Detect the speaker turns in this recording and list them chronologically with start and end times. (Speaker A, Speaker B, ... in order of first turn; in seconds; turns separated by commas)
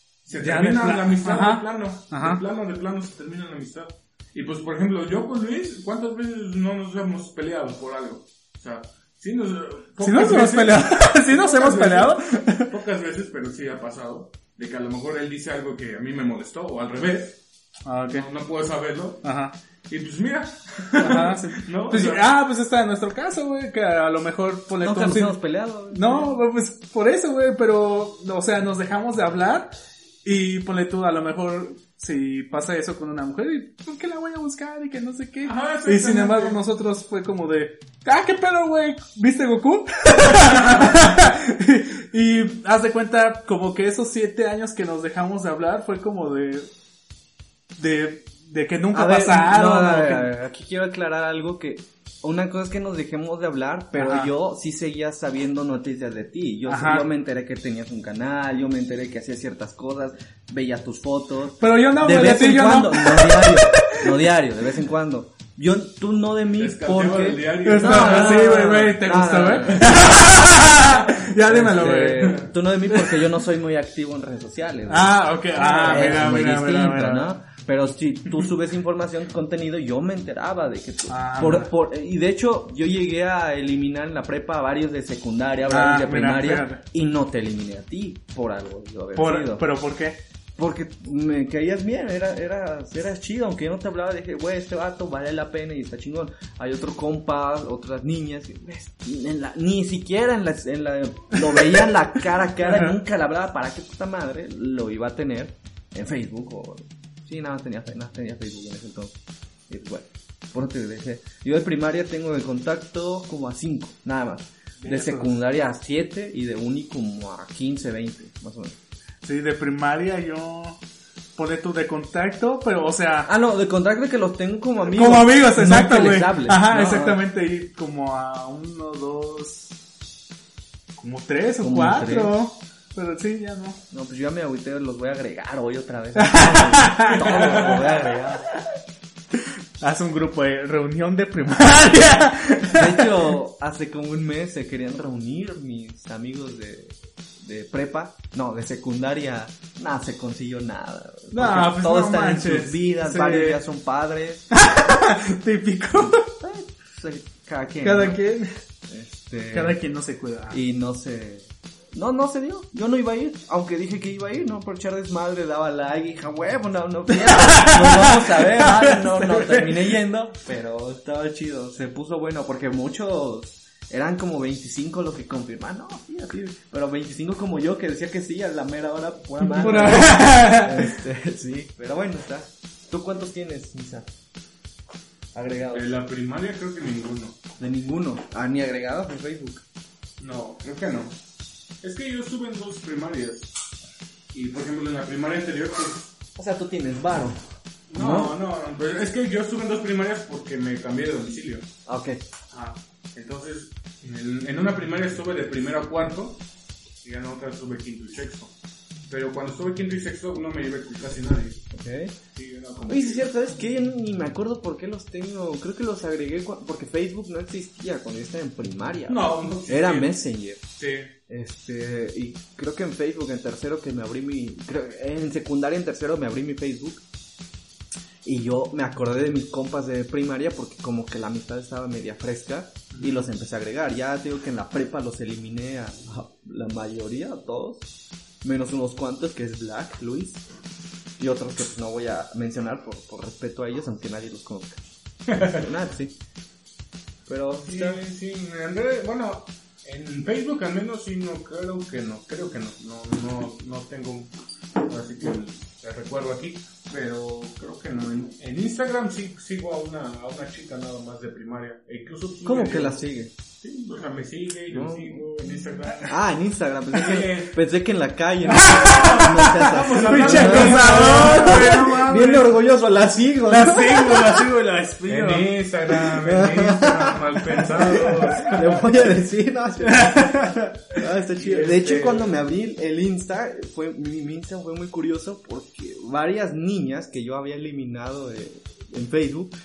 Speaker A: 0.2-17.4, Speaker B: 0.3-2.4, Speaker B: 10.0-12.7, Speaker B: 17.8-18.2, Speaker A: 18.1-19.3, Speaker B: 19.2-19.6, Speaker A: 19.9-22.3, Speaker B: 21.0-25.4, Speaker C: 24.8-26.4, Speaker B: 25.9-46.7, Speaker A: 35.4-36.6, Speaker B: 47.8-50.3, Speaker C: 48.9-70.4, Speaker B: 54.0-54.3, Speaker B: 56.7-57.0, Speaker B: 61.6-64.2, Speaker A: 66.6-68.9, Speaker B: 67.6-73.3, Speaker A: 69.7-71.1, Speaker C: 71.4-89.7, Speaker B: 74.9-77.3, Speaker B: 81.1-81.7, Speaker B: 85.7-86.8, Speaker B: 89.2-90.2, Speaker C: 90.6-109.1, Speaker B: 101.4-101.9, Speaker B: 102.6-102.9, Speaker C: 109.7-118.8, Speaker B: 114.8-115.3, Speaker B: 119.2-120.8, Speaker B: 121.3-123.3, Speaker C: 123.2-127.2, Speaker B: 124.9-129.8, Speaker B: 131.0-133.8, Speaker C: 131.6-132.3, Speaker C: 133.9-138.4, Speaker B: 136.2-137.7, Speaker B: 139.3-143.1, Speaker C: 142.7-154.5, Speaker B: 151.3-153.6, Speaker B: 154.5-156.2, Speaker C: 156.1-158.2, Speaker B: 157.8-158.5, Speaker C: 158.9-159.8, Speaker B: 159.5-160.6, Speaker C: 160.5-184.1, Speaker B: 167.2-169.9, Speaker B: 179.4-180.9, Speaker C: 185.3-185.9, Speaker A: 185.7-187.4, Speaker C: 187.6-189.6, Speaker A: 190.2-191.2, Speaker A: 191.8-193.5, Speaker A: 194.3-196.1, Speaker C: 196.4-197.4, Speaker A: 197.9-201.7, Speaker C: 197.9-198.3, Speaker C: 201.8-202.2, Speaker A: 202.5-206.4, Speaker A: 207.0-208.5, Speaker A: 209.1-211.6, Speaker C: 211.7-212.1, Speaker A: 212.3-213.3, Speaker C: 212.9-220.6, Speaker A: 219.1-220.2, Speaker A: 220.7-221.1, Speaker C: 221.3-227.0, Speaker C: 228.2-237.9, Speaker A: 232.9-233.2, Speaker C: 238.4-240.4, Speaker C: 241.2-246.2, Speaker A: 245.3-245.6, Speaker C: 247.3-248.0, Speaker A: 247.6-263.0, Speaker C: 262.4-263.3, Speaker A: 263.6-266.1, Speaker C: 264.7-265.2, Speaker C: 266.1-274.4, Speaker A: 266.9-267.6, Speaker B: 268.5-272.5, Speaker A: 268.8-271.8, Speaker B: 273.5-275.5, Speaker A: 275.1-278.8, Speaker C: 275.9-289.5, Speaker B: 279.8-280.8, Speaker A: 281.3-282.4